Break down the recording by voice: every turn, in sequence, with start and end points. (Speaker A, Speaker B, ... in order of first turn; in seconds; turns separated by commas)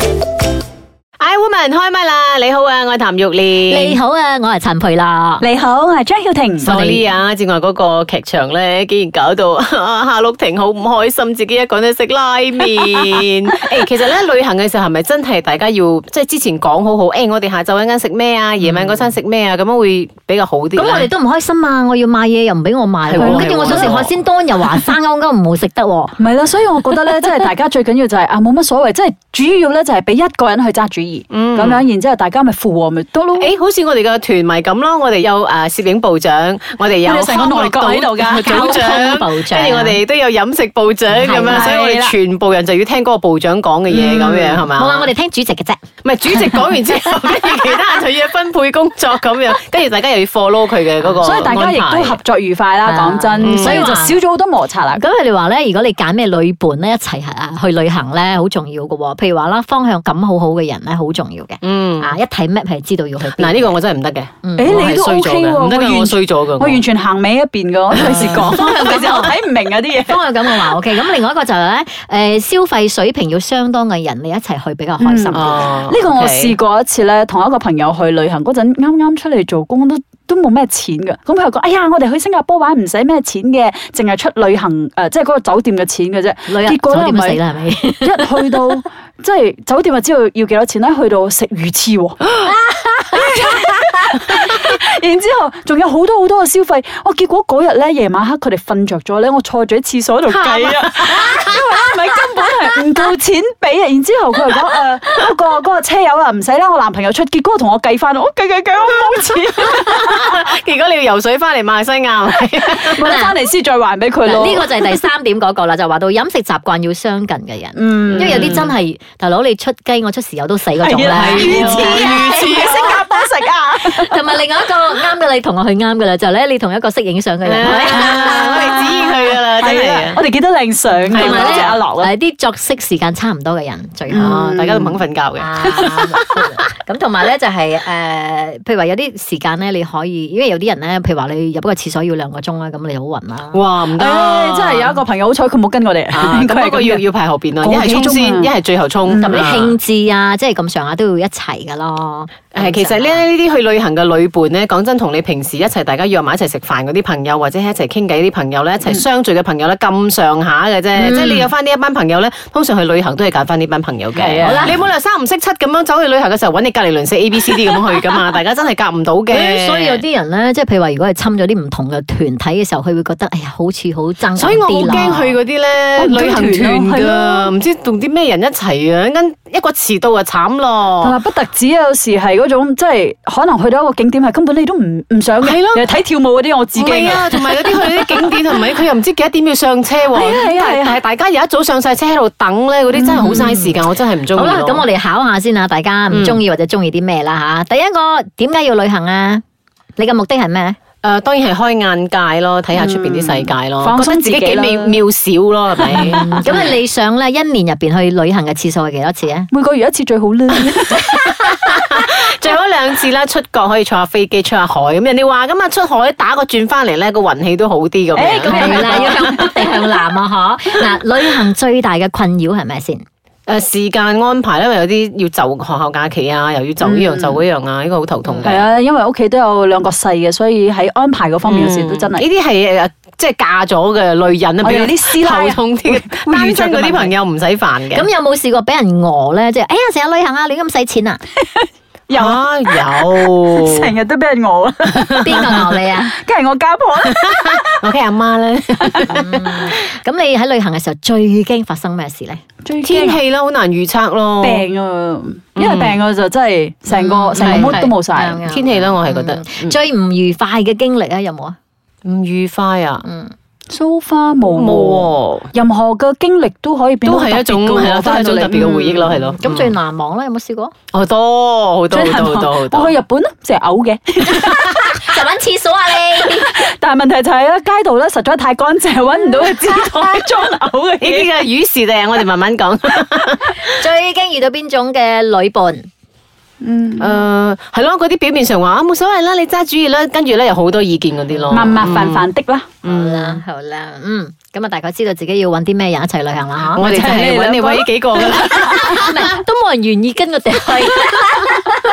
Speaker A: 1.2-4.0, Speaker B: 3.7-5.4, Speaker C: 5.4-6.7, Speaker A: 6.6-21.1, Speaker B: 6.6-7.0, Speaker B: 18.6-19.0, Speaker B: 20.8-26.2, Speaker A: 23.1-24.1, Speaker C: 23.2-24.0, Speaker C: 26.2-33.5, Speaker A: 31.3-31.8, Speaker A: 33.4-45.1, Speaker C: 37.0-38.7, Speaker B: 38.4-40.0, Speaker B: 41.1-41.8, Speaker C: 41.4-42.1, Speaker C: 43.9-44.5, Speaker B: 44.6-45.8, Speaker A: 46.0-52.2, Speaker B: 51.0-51.5, Speaker C: 51.2-55.0, Speaker B: 52.8-54.2, Speaker A: 53.4-53.9, Speaker B: 54.9-63.8, Speaker A: 61.6-62.2, Speaker A: 63.4-66.8, Speaker B: 64.4-64.7, Speaker C: 64.6-70.5, Speaker A: 67.9-69.3, Speaker B: 68.0-69.4, Speaker B: 70.0-75.7, Speaker C: 75.0-87.4, Speaker A: 75.3-76.6, Speaker B: 86.5-88.3, Speaker C: 88.0-110.2, Speaker A: 100.4-101.5, Speaker A: 109.7-113.1, Speaker C: 112.9-115.0, Speaker B: 113.0-113.4, Speaker B: 114.3-122.9, Speaker C: 117.8-118.5, Speaker A: 118.1-118.7, Speaker C: 120.8-124.3, Speaker A: 121.1-123.0, Speaker B: 123.8-128.8, Speaker A: 127.4-130.2, Speaker C: 127.8-132.1, Speaker A: 131.1-131.8, Speaker B: 131.1-134.4, Speaker C: 134.1-135.0, Speaker A: 134.2-136.6, Speaker B: 135.4-143.6, Speaker A: 143.5-145.0, Speaker C: 143.9-147.0, Speaker A: 146.1-149.7, Speaker C: 147.6-148.5, Speaker B: 149.2-153.2, Speaker A: 152.5-170.0, Speaker B: 161.0-161.5, Speaker B: 164.1-164.8, Speaker C: 164.4-164.7, Speaker B: 169.3-175.4, Speaker A: 174.3-181.2, Speaker C: 174.8-175.2, Speaker C: 176.0-177.5, Speaker C: 181.0-188.4, Speaker A: 185.4-185.9, Speaker A: 186.7-194.8, Speaker C: 190.1-191.0, Speaker C: 193.0-193.4, Speaker B: 193.2-193.7, Speaker B: 194.3-199.4, Speaker A: 196.1-196.4, Speaker B: 200.0-200.8, Speaker A: 201.0-206.8, Speaker C: 202.7-205.0, Speaker C: 205.9-206.2, Speaker B: 205.9-209.5, Speaker C: 209.5-211.3, Speaker A: 211.2-219.5, Speaker C: 218.2-219.7, Speaker B: 218.4-223.1, Speaker A: 223.5-228.7, Speaker C: 226.8-227.4, Speaker B: 228.2-228.6, Speaker C: 228.4-232.3, Speaker A: 231.5-238.1, Speaker C: 234.6-237.2, Speaker B: 237.9-241.2, Speaker C: 241.6-247.6, Speaker A: 242.1-243.9, Speaker A: 244.9-245.6, Speaker B: 245.2-246.2, Speaker A: 247.0-249.8, Speaker B: 249.1-252.4, Speaker C: 252.6-253.2, Speaker A: 252.8-254.7, Speaker C: 254.4-258.4, Speaker A: 255.6-256.0, Speaker B: 256.9-261.6, Speaker A: 257.3-257.9, Speaker A: 258.4-259.8, Speaker A: 262.0-263.1, Speaker B: 263.0-263.3, Speaker C: 263.7-268.9, Speaker A: 264.5-265.5, Speaker A: 267.1-269.7, Speaker B: 268.6-270.7, Speaker A: 270.9-272.9, Speaker C: 271.9-275.1, Speaker B: 274.3-276.6, Speaker C: 276.2-281.3, Speaker A: 281.0-283.6, Speaker B: 283.7-285.9, Speaker C: 286.6-287.2, Speaker A: 287.0-292.3, Speaker B: 291.4-291.8, Speaker C: 291.5-292.7, Speaker A: 292.8-293.4, Speaker B: 292.8-296.8, Speaker C: 296.8-298.9, Speaker A: 296.8-299.3, Speaker B: 298.6-301.8